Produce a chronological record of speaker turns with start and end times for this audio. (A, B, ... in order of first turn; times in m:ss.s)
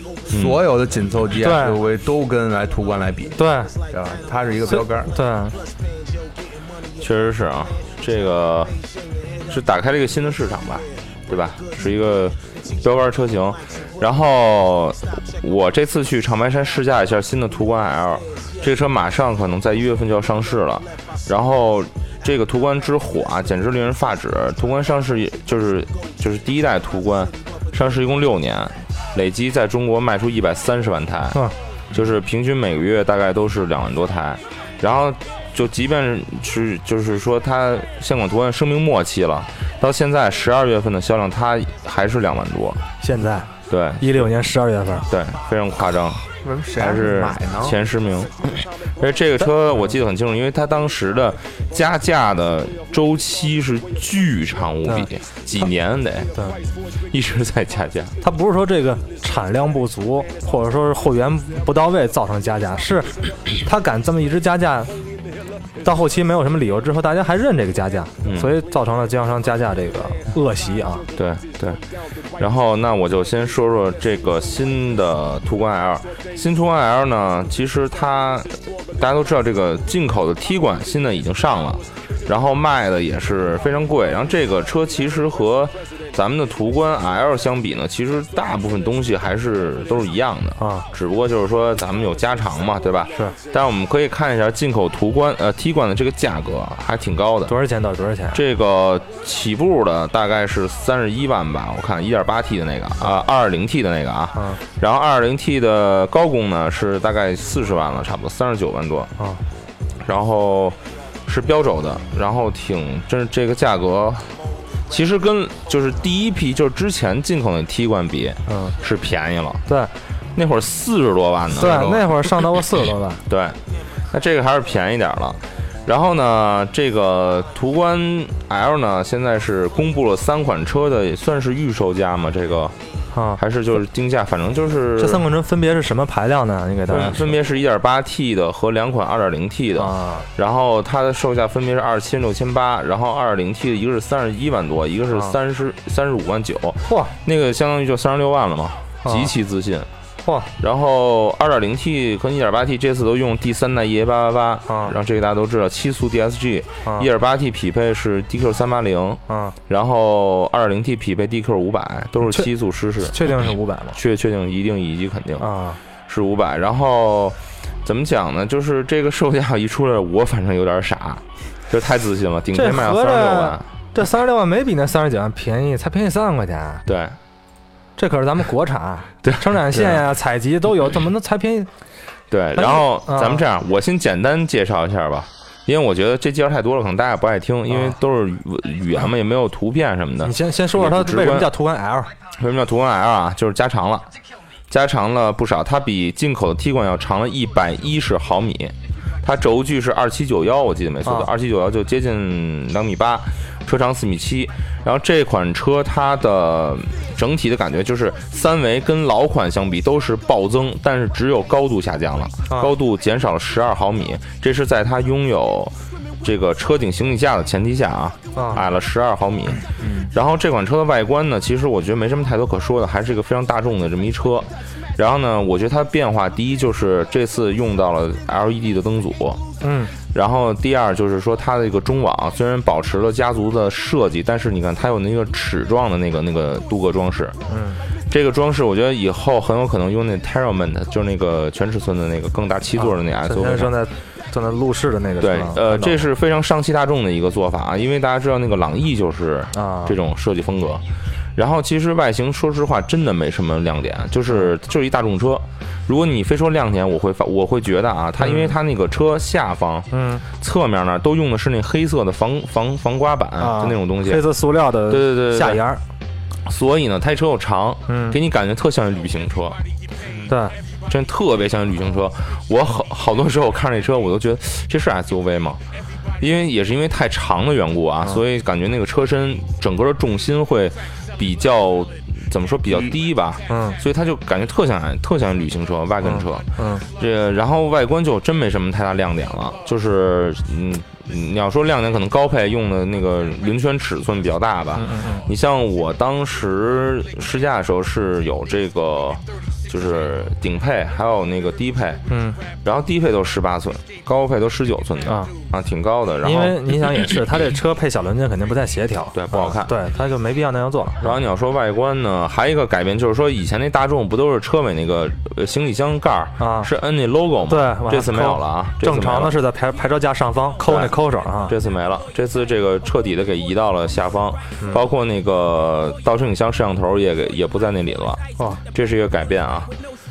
0:00.3-0:03.4 A
0:00.3-0:00.6 B
0:01.4-0:01.8 C
0:03.4-0:03.7 C
0:03.9-0:05.1 A
0:04.7-0:05.6 C
0:07.0-0:08.7 B
0:09.5-0:42.8 B
0:43.0-0:45.1 C
0:43.7-0:44.3 B
0:45.1-0:56.3 B
0:46.4-0:47.8 A
0:54.9-0:55.1 C
0:57.1-0:58.2 B
0:58.2-1:04.9 C
1:05.8-1:11.1 C
1:08.2-1:08.5 B
1:11.2-1:11.8 B
1:12.4-1:37.6 B
1:30.6-1:30.9 C
1:37.5-1:38.4 C
1:38.3-1:49.1 B
1:44.3-1:44.6 C
1:50.0-1:59.6 B
1:58.5-1:58.8 C
1:59.7-1:59.9 C
2:00.4-2:01.8 B
2:01.5-2:03.2 C
2:01.6-2:02.2 A
2:03.3-2:03.6 B
2:04.1-2:12.8 B
2:13.1-2:13.4 C
2:13.4-2:15.3 B
2:15.0-2:17.4 C
2:16.9-2:29.9 B
2:19.8-2:20.3 C
2:26.9-2:27.1 C
2:29.0-2:29.3 C
2:30.2-2:30.5 C
2:30.6-2:43.3 B
2:34.7-2:35.0 C
2:39.3-2:39.6 C
2:43.0-2:44.0 C
2:44.0-2:45.5 B
2:45.4-2:45.8 C
2:46.1-2:53.7 B
2:52.5-2:56.8 C
2:56.9-2:57.2 B
2:58.0-3:01.7 C
2:59.2-3:00.0 B
3:02.3-3:11.5 B
3:02.6-3:03.4 C
3:07.7-3:08.0 C
3:10.2-3:12.1 C
3:12.3-3:14.1 B
3:14.7-3:49.4 B
3:21.0-3:21.3 C
3:32.5-3:32.7 C
3:38.4-3:38.6 C
3:39.8-3:40.1 A
3:49.6-3:50.0 C
3:50.1-3:57.4 B
3:57.5-3:57.8 C
3:58.1-4:03.7 B
4:02.8-4:06.0 C
4:05.2-4:10.8 B
4:09.5-4:10.0 C
4:11.4-4:24.3 B
4:18.2-4:18.5 C
4:19.9-4:20.2 C
4:23.4-4:25.8 C
4:24.9-4:25.6 B
4:26.4-4:29.6 B
4:27.9-4:28.2 C
4:30.3-4:30.6 C
4:30.9-4:35.6 B
4:36.2-5:02.0 B
4:43.5-4:43.8 C
4:46.0-4:46.8 C
4:54.7-4:55.3 C
5:02.1-5:02.4 C
5:02.6-5:06.8 B
5:05.0-5:05.3 C
5:06.2-5:11.2 C
5:09.1-5:09.7 B
5:11.0-5:19.4 B
5:16.4-5:16.7 C
5:17.5-5:21.6 C
5:20.6-5:29.7 B